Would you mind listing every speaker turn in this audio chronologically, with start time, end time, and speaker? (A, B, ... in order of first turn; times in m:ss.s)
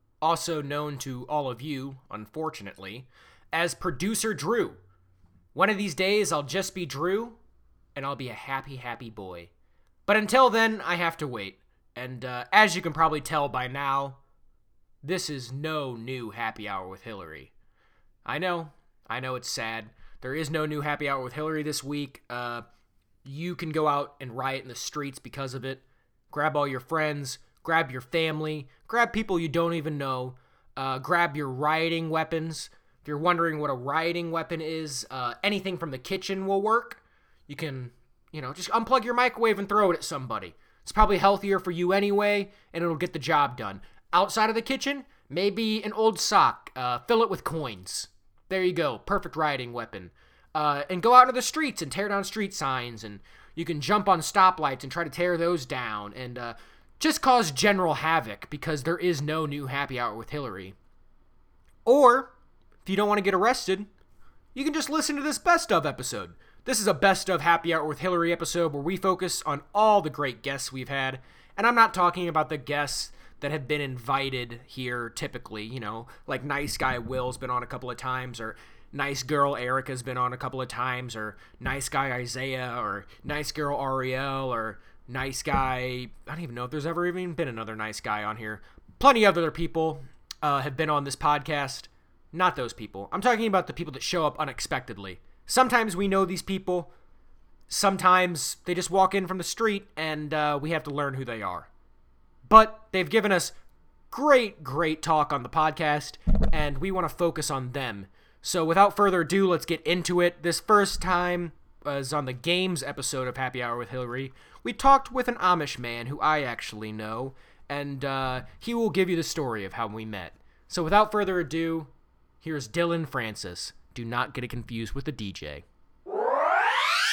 0:00.2-0:04.8 A
0:05.5-0:07.4 A
0:08.0-0:09.5 A
0:10.1-0:14.2 A
0:15.0-0:17.5 A
0:18.2-0:22.7 A
0:23.2-1:00.8 A
1:01.9-1:02.3 A
1:02.8-1:03.9 A
1:04.6-1:36.9 A
1:37.7-1:41.7 A
1:42.5-1:43.5 A
1:44.1-2:01.9 A
2:02.4-2:05.6 A